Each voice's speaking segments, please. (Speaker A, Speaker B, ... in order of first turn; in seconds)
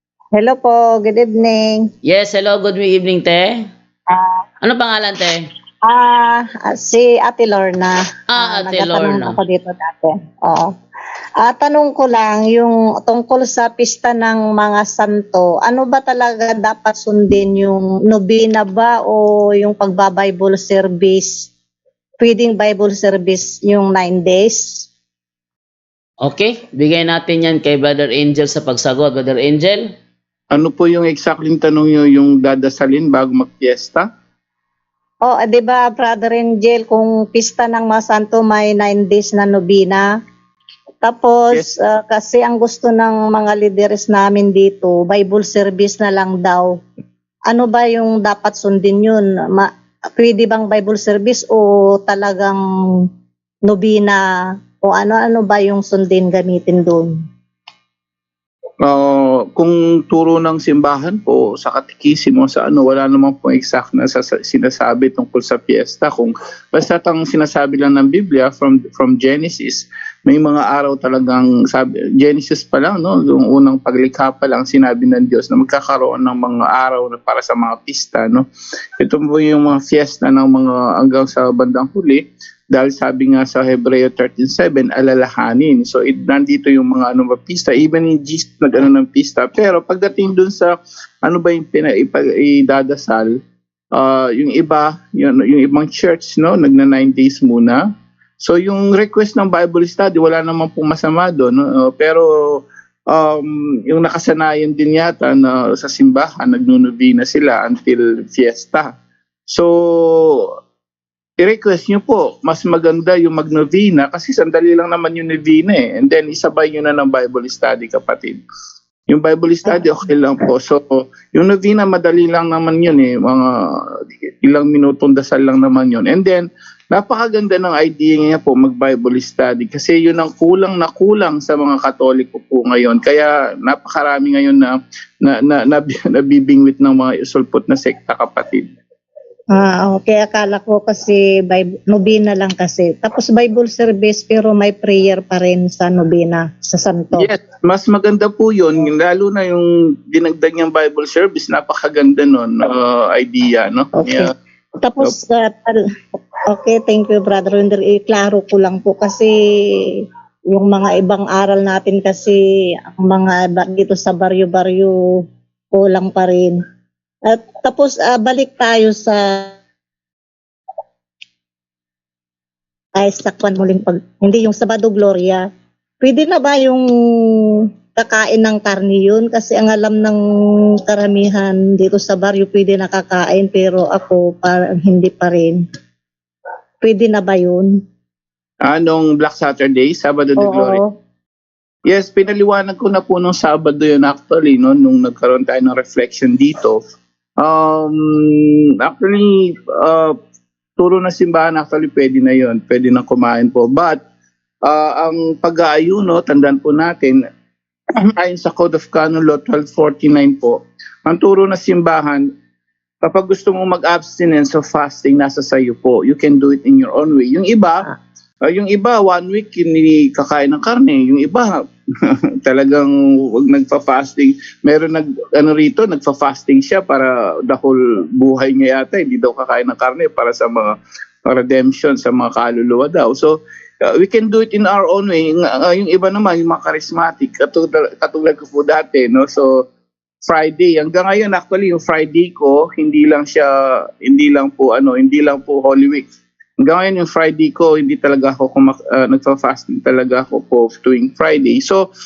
Speaker A: 0.3-1.9, 4.1-4.4, 5.8-10.7, 11.4-21.5, 22.2-24.9, 35.2-40.0, 41.0-46.8, 47.5-53.1, 53.6-54.2, 54.8-57.1, 139.5-147.3, 153.9-155.8, 156.4-164.9, 165.7-166.6, 167.2-169.6, 172.9-175.5, 176.0-180.2, 180.9-185.6, 186.8-187.7, 190.4-190.9
Speaker B: 2.0-3.6, 4.6-5.5, 8.3-9.4, 26.2-29.9
Speaker C: 30.5-34.1, 58.8-78.5, 79.0-93.4, 93.9-97.8, 98.4-108.9, 109.5-110.5, 111.4-118.4, 119.1-138.7, 147.1-154.3, 188.6-190.8, 191.8-196.8, 197.4-200.1, 200.8-204.0, 204.6-207.2, 208.0-212.2, 213.0-217.9, 218.4-230.7, 231.2-239.6, 240.2-246.1, 246.6-251.8